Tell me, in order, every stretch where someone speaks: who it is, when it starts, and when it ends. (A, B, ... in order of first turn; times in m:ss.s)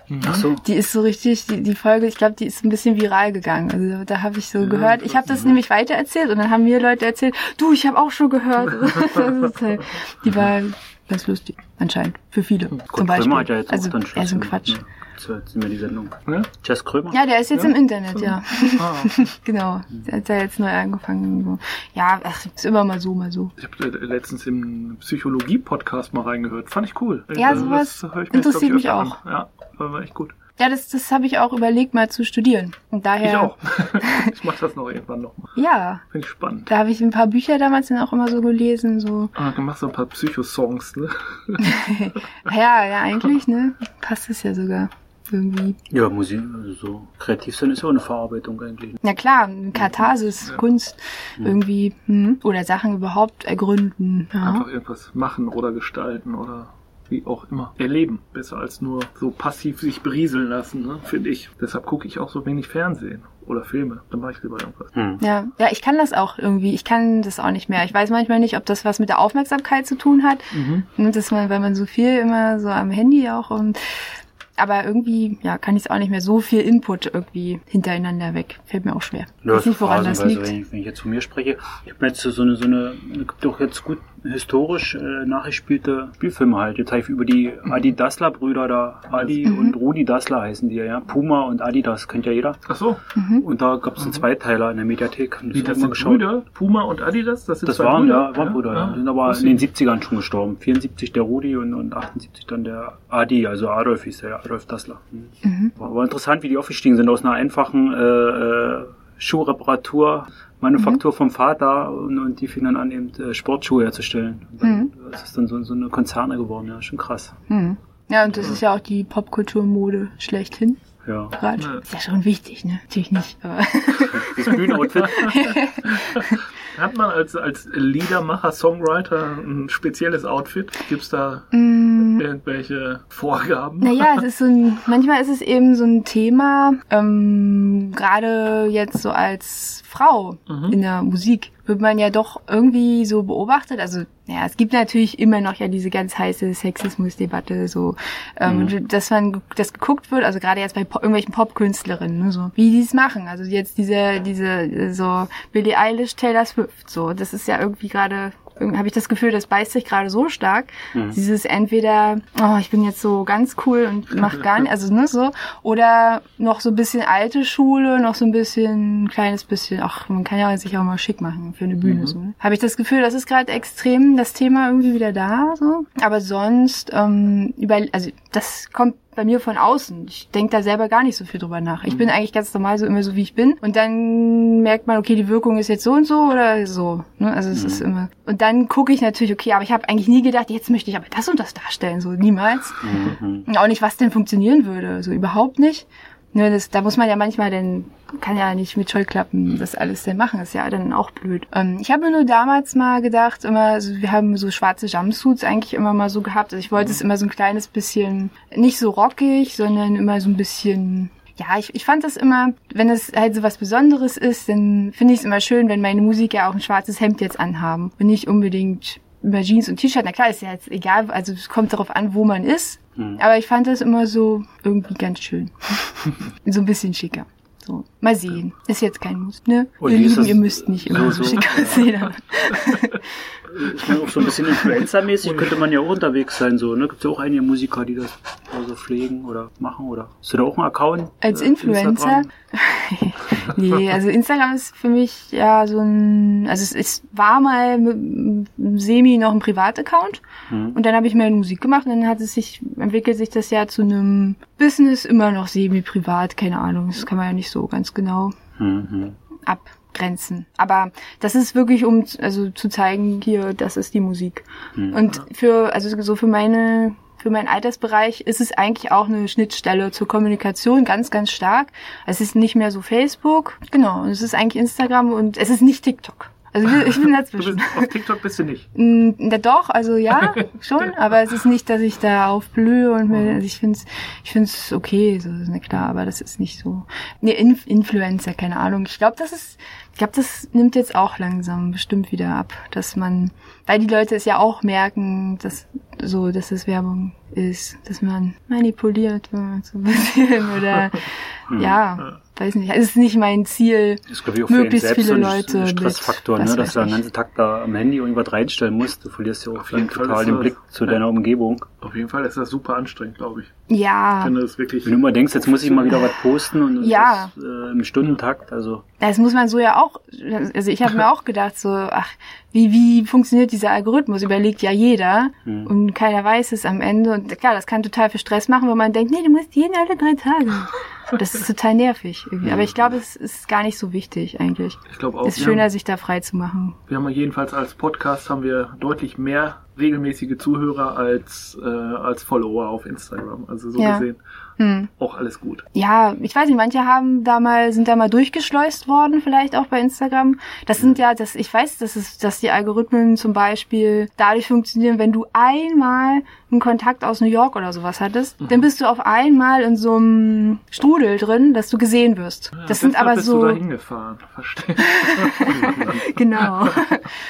0:00.1-0:00.4 A
0:00.2-0:00.6 B
0:00.5-0:14.8 C
0:04.6-0:05.6 A
0:08.8-0:09.5 A
0:12.9-0:17.3 B
0:17.1-0:23.5 C
0:17.5-0:19.3 A
0:23.6-0:30.3 A
0:27.3-0:29.2 C
0:30.6-0:34.3 C
0:33.2-0:35.5 A
0:35.6-0:36.0 C
0:36.1-0:36.7 A
0:36.6-0:39.3 C
0:39.4-0:41.8 A
0:41.6-0:45.8 C
0:45.9-0:49.0 B
0:49.0-0:54.6 C
0:54.4-1:04.9 A
1:04.9-1:05.2 B
1:05.2-1:20.5 C
1:10.5-1:10.8 A
1:19.4-1:32.6 B
1:29.4-1:29.8 C
1:32.7-1:33.0 A
1:33.2-1:33.4 C
1:33.3-1:36.3 B
1:35.5-1:39.6 A
1:37.6-1:57.3 B
1:45.4-1:45.7 C
1:54.6-1:54.9 C
1:57.5-2:00.8 C
2:01.0-2:01.4 B
2:01.4-2:06.4 C
2:01.6-2:01.8 A
2:04.0-2:05.3 B
2:04.8-2:11.6 A
2:11.5-2:12.2 C
2:12.2-2:14.2 A
2:13.8-3:53.0 C
2:20.5-2:20.8 A
2:28.4-2:28.7 B
2:40.9-2:41.2 B
2:51.8-2:52.1 A
3:07.5-3:07.8 B
3:12.8-3:13.5 B
3:43.0-3:43.2 B
3:49.8-3:52.0 B
3:53.5-4:01.2 B
3:55.2-3:55.5 A
4:01.2-4:10.2 C
4:01.4-4:02.2 A
4:10.5-4:10.8 B
4:10.7-4:18.3 C
4:18.6-4:19.2 B
4:19.4-4:37.9 C
4:24.7-4:25.0 B
4:36.7-4:38.7 A
4:38.7-5:07.0 C
4:43.1-4:43.4 A
5:01.5-5:01.8 B
5:04.1-5:11.7 B
5:09.6-5:11.0 A
5:11.8-5:13.5 A
5:13.7-5:14.4 C
5:14.2-5:16.0 A
5:14.8-5:18.8 B
5:16.8-5:17.3 C
5:19.0-5:36.8 C
5:25.4-5:25.7 B
5:32.4-5:33.0 B
5:34.9-5:35.7 A
5:36.9-5:44.2 A
5:43.8-5:44.0 C
5:44.6-5:44.9 C
5:45.0-5:45.6 A
5:45.7-6:03.6 C
6:02.6-6:06.8 A
6:04.8-6:07.1 C
6:05.6-6:05.9 B